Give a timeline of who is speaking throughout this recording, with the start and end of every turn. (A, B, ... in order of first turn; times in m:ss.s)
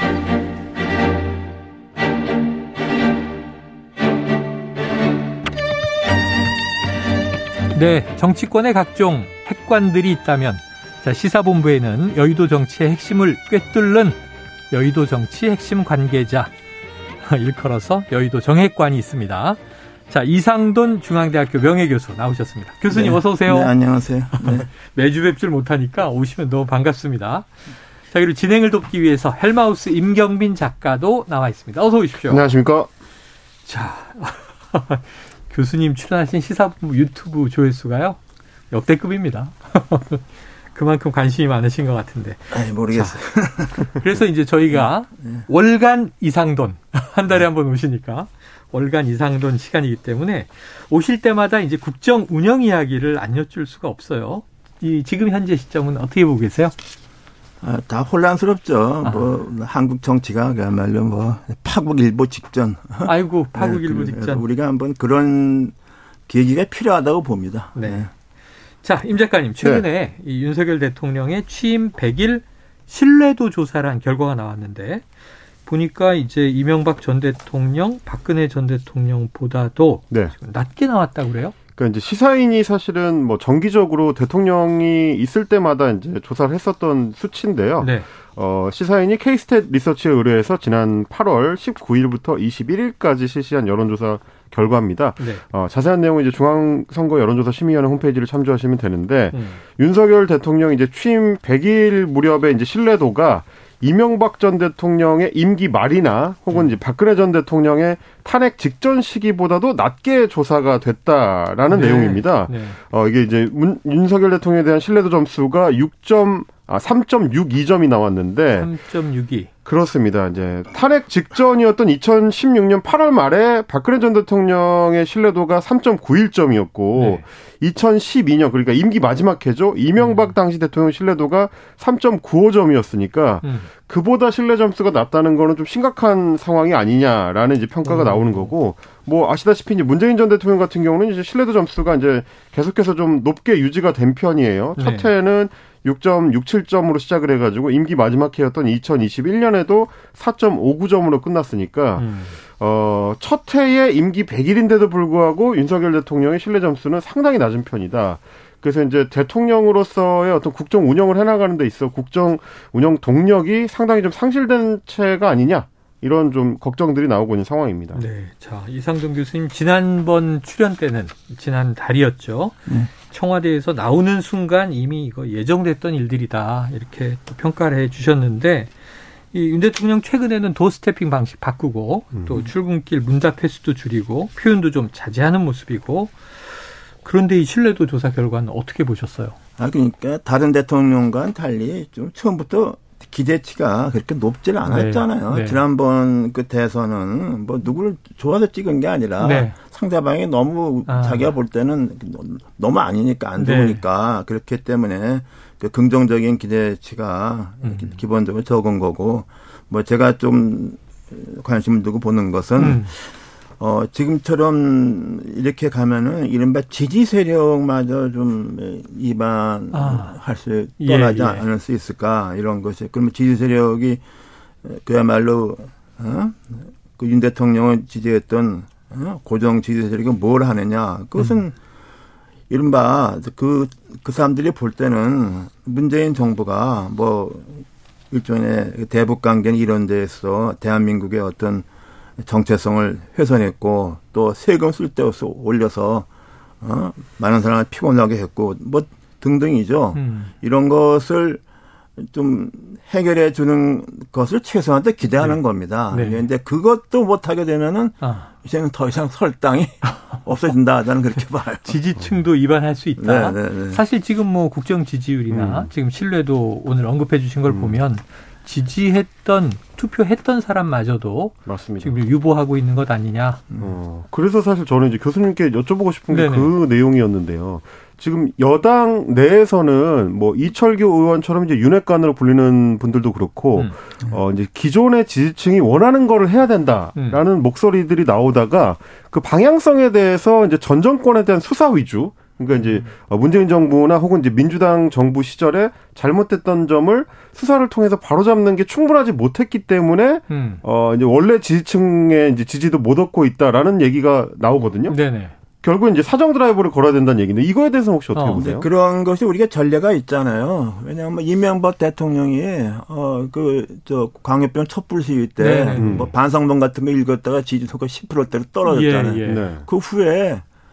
0:07.7-0:16.5 A
0:17.2-0:23.8 A
0:22.9-0:24.7 B
0:24.3-0:27.5 A
0:28.1-0:32.5 A
0:32.3-0:32.9 C
0:33.6-0:38.2 A
0:38.7-0:43.2 A
0:42.5-0:44.1 B
0:43.8-0:56.7 A
0:44.7-0:45.4 B
0:57.6-1:05.7 B
0:59.0-0:59.3 A
1:03.0-1:04.5 A
1:06.3-1:08.1 B
1:07.8-1:08.1 A
1:08.8-1:15.0 A
1:15.6-1:21.6 A
1:21.8-1:58.7 C
1:27.8-1:28.1 A
1:39.3-1:39.6 A
1:51.7-1:52.8 A
1:58.6-1:59.5 A
1:59.6-2:48.0 C
2:07.0-2:07.2 A
2:10.0-2:10.3 A
2:13.4-2:13.7 A
2:17.8-2:18.5 A
2:24.8-2:25.1 A
2:32.0-2:32.3 A
2:47.9-2:58.7 A
2:59.3-3:06.4 A
3:07.0-3:09.4 A
3:09.6-3:33.0 B
3:14.6-3:15.6 A
3:19.2-3:19.6 A
3:20.9-3:21.3 A
3:23.4-3:23.8 A
3:27.6-3:28.0 A
3:32.6-3:32.9 A
3:33.6-3:44.0 B
3:39.7-3:40.2 A
3:40.8-3:41.4 A
3:44.6-3:51.6 B
3:52.5-4:01.6 B
4:02.2-4:06.1 B
4:06.6-4:11.4 B
4:09.9-4:10.3 A
4:12.0-4:21.8 B
4:15.9-4:16.3 A
4:18.0-4:18.3 A
4:19.8-4:20.2 A
4:21.6-4:33.4 A
4:23.0-4:23.8 B
4:25.3-4:25.7 C
4:27.5-4:27.8 C
4:31.5-4:32.0 C
4:33.6-5:05.0 C
4:36.1-4:36.5 A
4:47.0-4:47.2 A
4:52.6-4:52.9 A
5:00.3-5:00.6 A
5:04.8-5:05.3 A
5:05.6-5:08.7 C
5:08.1-5:08.4 A
5:08.4-5:20.4 B
5:15.4-5:16.1 A
5:15.8-5:16.1 C
5:18.6-5:19.5 A
5:19.2-5:19.6 C